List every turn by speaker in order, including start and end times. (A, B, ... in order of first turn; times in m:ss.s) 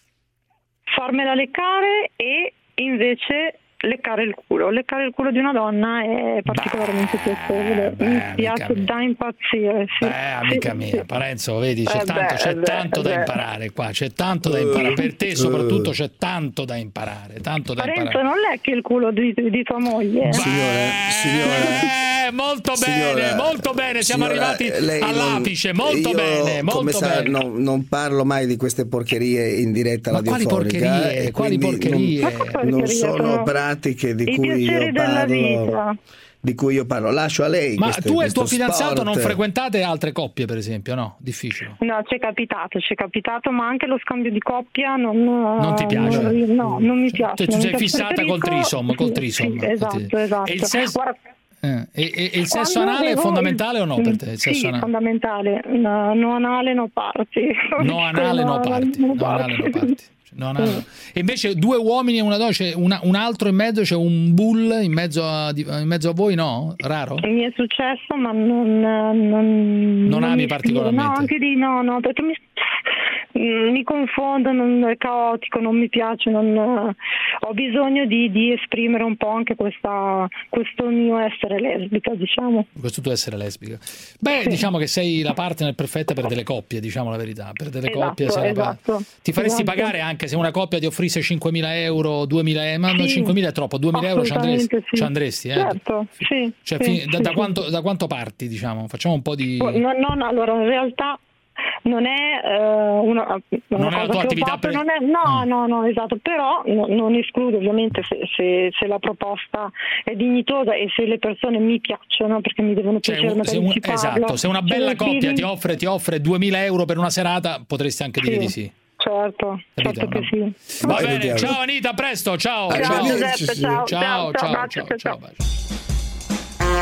0:00.9-0:11.0 A
0:06.5-0:08.9 B
0:10.0-0:18.2 B
0:11.9-0:13.3 A
0:14.5-0:15.9 C
0:17.8-0:20.4 A
0:20.3-0:21.9 C
0:20.3-0:27.3 B
0:22.7-0:35.8 C
0:30.1-0:32.6 B
0:32.2-0:33.5 A
0:34.3-0:36.0 A
0:36.4-0:39.4 C
0:37.8-0:41.8 B
0:41.8-0:51.2 A
0:45.6-0:46.4 B
0:46.0-0:46.3 C
0:47.2-0:51.0 B
0:51.6-0:54.9 B
0:52.5-0:59.9 A
0:57.8-1:07.2 B
1:00.6-1:00.8 A
1:07.2-1:12.4 A
1:10.0-1:11.3 B
1:13.3-1:22.7 A
1:22.8-1:35.8 B
1:27.8-1:29.9 A
1:32.9-1:33.3 A
1:33.9-1:37.6 A
1:36.6-1:39.8 B
1:39.6-1:41.2 A
1:41.8-1:55.5 A
1:43.8-1:45.4 B
1:53.0-1:58.7 B
1:58.2-2:01.3 A
1:59.8-2:05.4 B
2:00.8-2:01.6 C
2:02.7-2:03.9 C
2:02.7-2:05.2 A